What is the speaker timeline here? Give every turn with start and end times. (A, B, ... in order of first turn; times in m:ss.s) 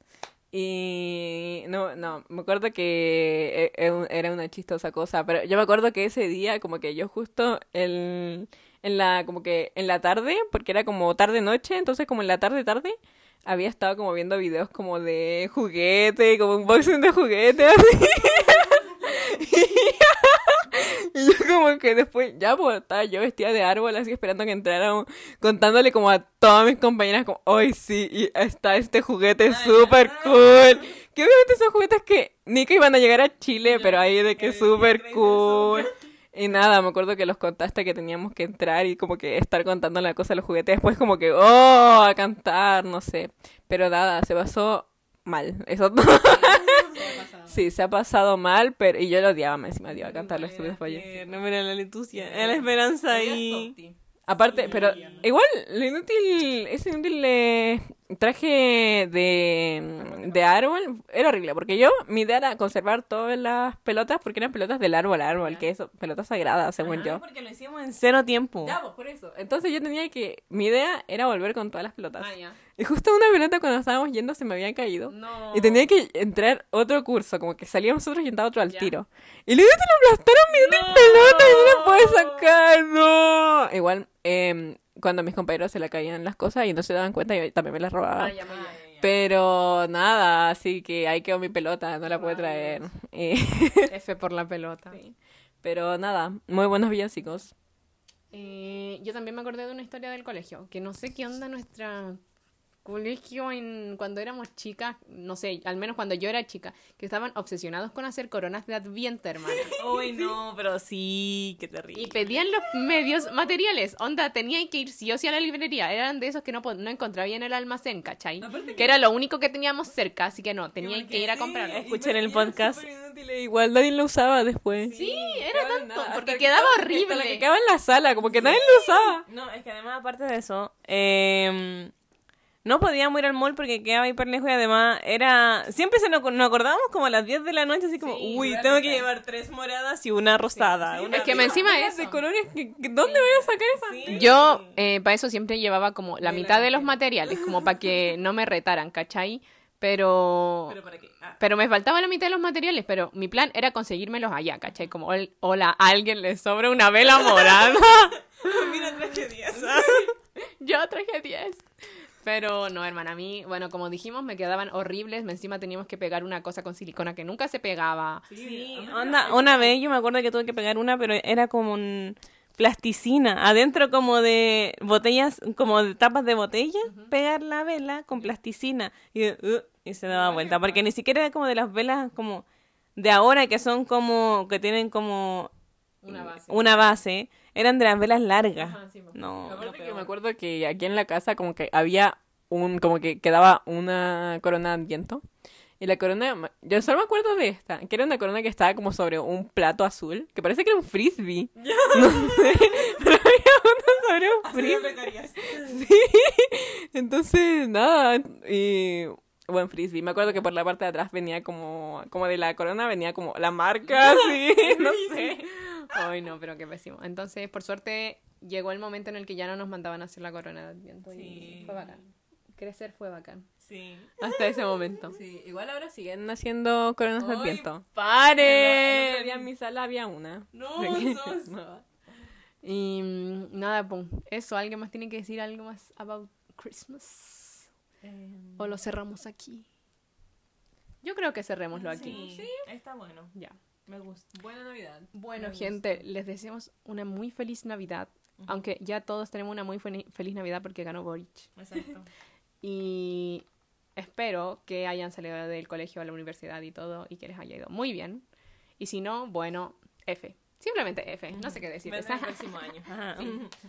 0:00.5-0:51.2 A
0:29.4-0:30.8 B
0:33.7-0:35.9 B
0:46.2-0:47.6 C
0:50.1-0:50.4 C
0:50.1-0:53.8 B
0:52.2-1:07.2 A
0:54.5-0:55.3 C
0:54.5-0:55.3 B
1:00.0-1:00.4 C
1:05.3-1:05.7 C
1:06.8-1:08.8 B
1:08.6-1:28.4 A
1:12.2-1:12.6 C
1:15.1-1:15.9 C
1:20.5-1:22.4 C
1:28.2-1:28.9 C
1:28.5-1:29.0 B
1:29.0-1:33.9 A
1:32.1-1:32.9 C
1:33.9-1:35.0 C
1:35.6-1:37.5 A
1:38.3-1:42.2 C
1:42.8-1:49.8 C
1:49.7-1:52.2 B
1:51.9-2:01.9 C
1:58.4-1:58.9 B
1:58.5-1:58.8 A
2:00.8-2:02.8 B
2:01.8-2:09.3 A
2:04.8-2:05.4 B
2:04.9-2:07.4 C
2:08.7-2:09.1 C
2:09.3-2:11.9 B
2:12.6-2:21.7 B
2:18.0-2:19.0 C
2:20.5-2:22.2 C
2:20.8-2:24.3 A
2:23.0-2:23.5 C
2:23.8-2:24.7 B
2:24.1-2:30.8 C
2:26.2-2:27.0 B
2:30.7-2:31.4 B
2:31.4-2:41.6 C
2:37.2-2:40.1 B
2:42.2-2:48.3 C
2:48.3-2:49.7 A
2:48.4-3:02.4 B
2:56.8-2:57.1 C
3:00.2-3:00.7 A
3:00.3-3:00.8 C
3:03.0-3:05.5 B
3:06.0-3:06.8 C
3:06.1-3:10.1 B
3:08.6-3:09.2 C
3:09.4-3:15.2 A
3:15.8-3:35.5 A
3:21.6-3:22.7 B
3:24.4-3:25.8 B
3:34.6-3:42.0 C
3:41.1-3:42.0 B
3:42.6-3:43.5 C
3:43.6-3:44.1 B
3:44.2-3:45.2 C
3:45.1-3:51.8 A
3:47.2-3:49.4 C
3:50.5-3:51.5 B
3:52.6-3:57.7 C
3:58.0-3:58.7 B
3:58.6-3:59.7 C
4:01.0-4:02.2 C
4:01.7-4:03.3 B
4:02.0-4:02.6 A
4:03.9-4:04.3 B
4:04.3-4:05.7 A
4:05.1-4:11.5 C
4:11.6-4:12.1 B
4:12.6-4:13.4 C
4:14.0-4:18.2 C
4:18.8-4:22.6 C
4:21.4-4:23.5 B